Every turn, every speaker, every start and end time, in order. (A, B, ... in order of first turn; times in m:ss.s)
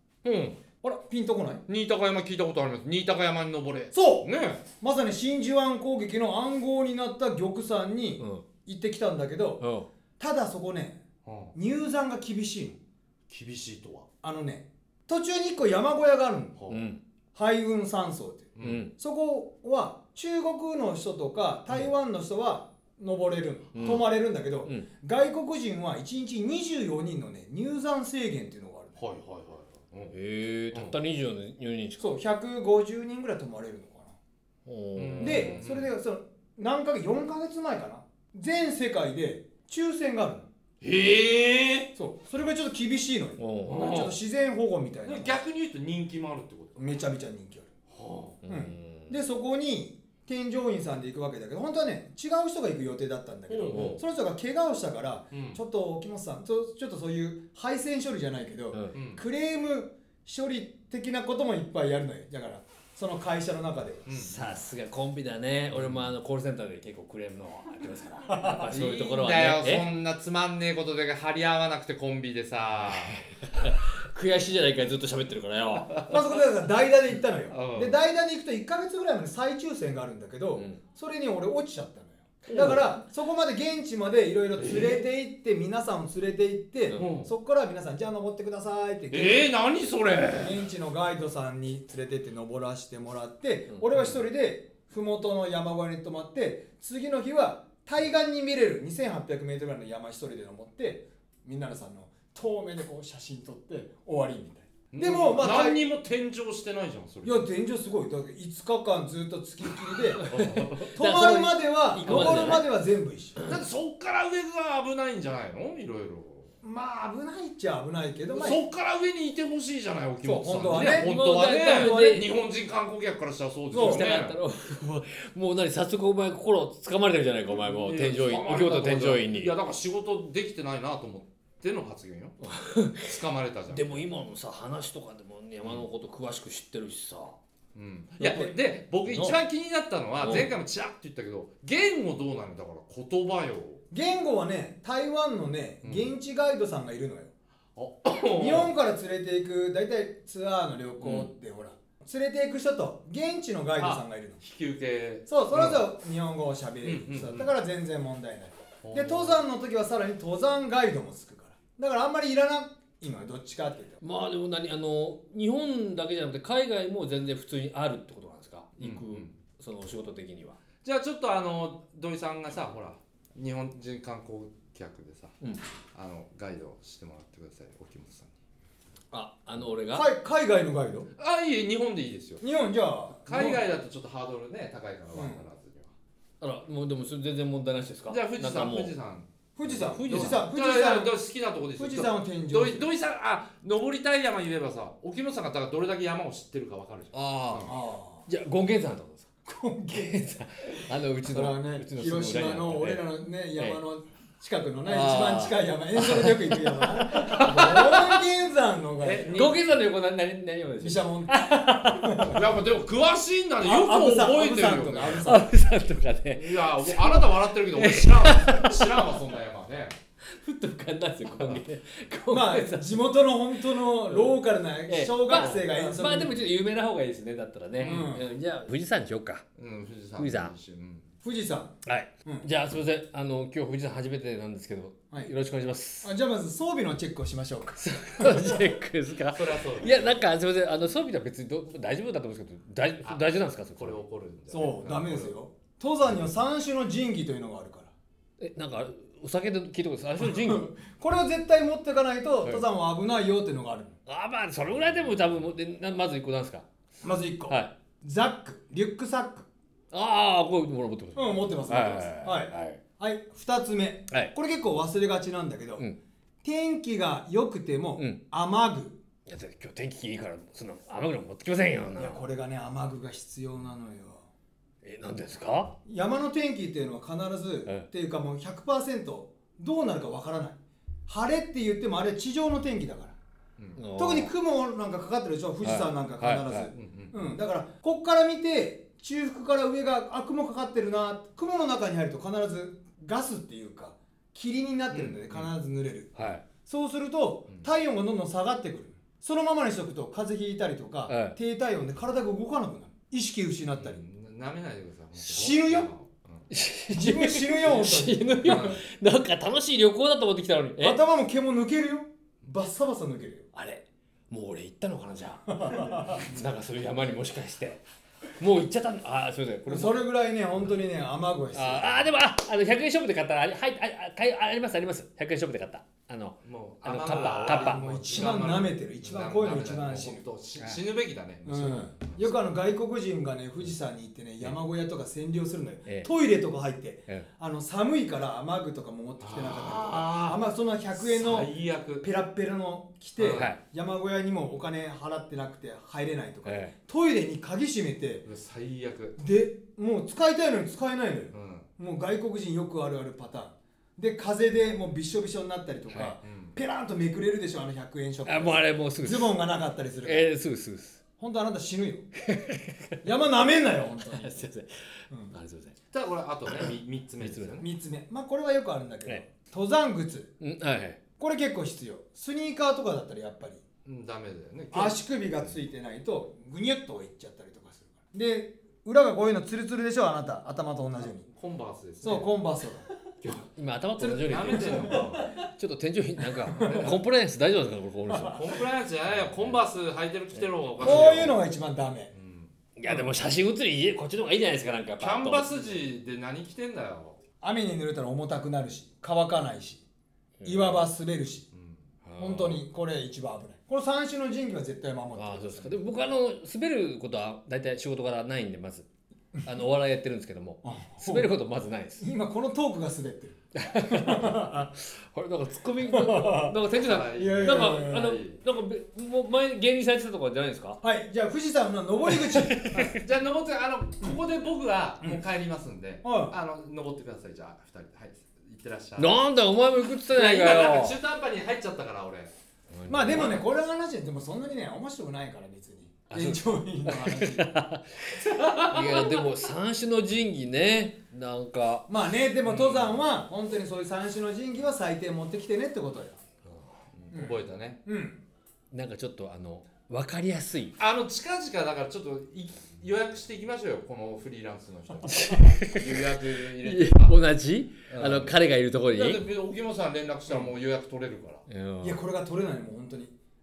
0:00.2-0:00.6 A
0:00.8-0:01.6 B
0:01.7-0:04.6 A
0:03.9-0:09.6 B
0:08.2-0:08.4 C
0:09.6-0:09.9 C
0:10.2-0:11.0 B
0:11.2-0:11.5 A
0:11.5-0:12.8 B
0:13.3-0:14.1 A
0:14.2-0:16.6 B
0:16.6-0:16.8 A
0:16.7-0:17.0 C
0:17.3-0:29.0 B
0:18.6-0:18.9 A
0:18.6-0:18.9 C
0:23.7-0:24.0 C
0:23.8-0:24.0 A
0:29.0-0:30.1 A
0:30.1-0:32.0 C
0:32.0-0:34.2 B
0:34.6-0:35.6 C
0:35.0-0:35.9 A
0:35.2-0:40.5 B
0:40.8-0:41.9 A
0:42.0-0:45.4 B
0:43.4-0:44.0 C
0:43.6-0:44.2 A
0:45.0-0:46.9 A
0:46.8-0:47.7 B
0:47.9-0:48.4 A
0:48.4-0:49.2 C
0:48.4-1:04.0 B
0:53.5-0:54.0 A
0:53.7-0:54.0 C
0:55.3-0:55.6 A
0:58.9-0:59.2 A
1:04.0-1:04.4 A
1:04.1-1:09.9 C
1:05.7-1:06.1 A
1:08.3-1:08.6 B
1:08.7-1:13.2 A
1:12.9-1:16.0 C
1:16.0-1:29.5 B
1:17.5-1:18.0 A
1:22.5-1:22.8 A
1:22.5-1:22.8 C
1:24.6-1:25.0 A
1:26.9-1:27.2 C
1:26.9-1:27.3 A
1:29.1-1:30.7 A
1:30.4-1:45.8 B
1:44.9-1:47.5 A
1:47.2-1:50.2 B
1:50.2-1:50.9 A
1:50.2-1:52.7 C
1:50.9-1:53.4 B
1:52.0-1:52.5 A
1:53.5-1:56.5 A
1:56.6-1:58.6 B
1:58.3-2:04.4 A
2:00.2-2:02.2 B
2:00.7-2:02.3 C
2:03.7-2:04.2 B
2:03.7-2:09.5 C
2:07.5-2:12.4 A
2:12.4-2:17.4 C
2:13.0-2:14.0 A
2:17.7-2:23.8 A
2:18.2-2:18.5 B
2:19.0-2:19.4 C
2:20.2-2:20.5 C
2:23.9-2:27.3 B
2:25.8-2:26.1 A
2:27.8-2:28.7 A
2:28.4-2:34.4 B
2:31.0-2:31.3 A
2:33.8-2:35.8 A
2:35.3-2:44.0 B
2:36.8-2:37.5 A
2:38.8-2:39.4 A
2:44.0-2:50.6 C
2:48.8-2:49.3 A
2:50.8-2:55.3 A
2:55.9-2:58.3 A
2:59.1-3:00.1 C
2:59.9-3:01.1 B
3:01.2-3:02.4 A
3:02.4-3:03.6 B
3:03.2-3:05.9 A
3:05.1-3:05.4 B
3:06.4-3:08.9 C
3:08.1-3:17.7 A
3:09.6-3:11.2 B
3:09.8-3:10.5 C
3:11.7-3:12.9 B
3:17.1-3:17.8 C
3:17.6-3:18.3 B
3:18.3-3:19.3 C
3:19.4-3:20.2 B
3:19.9-3:23.8 C
3:20.9-3:29.6 B
3:24.8-3:28.0 C
3:29.0-3:29.6 A
3:29.2-3:32.3 C
3:30.8-3:32.4 B
3:32.3-3:35.3 A
3:33.6-3:35.5 B
3:35.1-3:39.0 C
3:36.4-3:40.0 A
3:40.3-3:43.0 C
3:41.3-3:41.6 A
3:42.3-3:46.5 B
3:43.7-3:44.4 C
3:44.9-3:49.4 C
3:47.8-3:48.1 A
3:47.8-3:48.2 B
3:49.6-3:51.1 A
3:50.2-3:50.5 C
3:51.2-3:52.5 B
3:51.8-3:56.1 C
3:56.0-3:58.6 B
3:57.8-4:04.0 C
3:59.3-4:00.2 A
4:03.0-4:05.3 A
4:04.5-4:07.9 B
4:08.4-4:10.7 C
4:10.2-4:14.0 B
4:14.1-4:16.7 C
4:17.0-4:19.5 B
4:17.5-4:17.7 C
4:19.9-4:22.8 C
4:21.1-4:25.9 B
4:26.4-4:29.0 B
4:29.3-4:32.2 C
4:32.0-4:34.2 B
4:34.8-4:35.8 C
4:35.8-4:43.1 B
4:43.8-4:44.3 C
4:44.0-5:04.0 B
4:45.6-4:46.7 C
4:46.7-4:47.4 A
4:54.9-4:55.5 A
4:56.2-4:56.4 C
5:01.1-5:01.4 C
5:03.7-5:06.5 A
5:05.2-5:05.9 B
5:06.5-5:11.0 C
5:06.9-5:08.8 B
5:08.4-5:08.8 A
5:10.8-5:13.5 B
5:13.5-5:17.8 C
5:15.5-5:16.2 B
5:18.4-5:20.0 C
5:19.6-5:22.1 B
5:21.5-5:27.8 C
5:26.4-5:32.4 A
5:27.0-5:30.2 B
5:31.4-5:48.2 B
5:39.2-5:40.4 A
5:40.9-5:42.1 A
5:43.2-5:43.5 A
5:43.3-5:43.6 C
5:46.4-5:46.7 C
5:48.2-5:49.2 A
5:49.2-6:00.3 B
5:51.3-5:51.7 A
5:56.0-5:56.6 A
5:58.2-5:59.4 C
6:00.0-6:01.0 C
6:01.2-6:02.1 B
6:02.2-6:03.0 C
6:03.0-6:04.5 B
6:03.8-6:05.8 C
6:05.9-6:07.7 A
6:07.2-6:07.6 C
6:07.6-6:10.3 B
6:10.4-6:11.0 C
6:11.2-6:13.6 B
6:13.8-6:15.6 A
6:14.7-6:21.3 B
6:21.3-6:22.3 A
6:22.0-6:22.9 B
6:23.2-6:28.4 C
6:24.0-6:25.2 B
6:24.2-6:25.3 A
6:26.4-6:27.0 B
6:26.6-6:27.0 A
6:28.1-6:28.6 B
6:28.3-6:31.4 A
6:30.4-6:31.2 C
6:30.8-6:32.1 B
6:32.1-6:32.5 A
6:32.8-6:35.8 C
6:32.8-6:33.1 B
6:35.0-6:37.2 A
6:37.4-6:39.8 B
6:40.4-6:40.9 C
6:40.4-6:41.5 B
6:41.5-6:41.8 A
6:42.0-6:42.6 C
6:42.2-6:45.8 B
6:45.1-6:48.9 C
6:49.4-6:52.1 C
6:50.6-6:51.3 B
6:52.0-6:53.4 B
6:53.6-7:00.8 C
6:53.9-6:54.6 B
6:55.9-6:56.5 B
6:56.7-6:58.4 A
6:57.1-6:58.1 B
7:00.8-7:02.9 B
7:02.1-7:03.0 C
7:02.8-7:09.2 A
7:06.0-7:06.4 B
7:09.0-7:11.0 C
7:10.0-7:12.3 A
7:12.7-7:13.4 C
7:12.8-7:17.5 B
7:16.1-7:21.9 C
7:18.2-7:19.2 A
7:21.9-7:26.2 B
7:22.4-7:23.0 A
7:27.0-7:27.8 A
7:27.1-7:28.2 B
7:28.7-7:30.7 C
7:30.8-7:37.2 A
7:35.1-7:36.1 C
7:36.6-7:39.2 C
7:37.9-7:38.4 A
7:38.9-7:41.4 A
7:41.5-7:42.0 C
7:41.8-7:43.1 B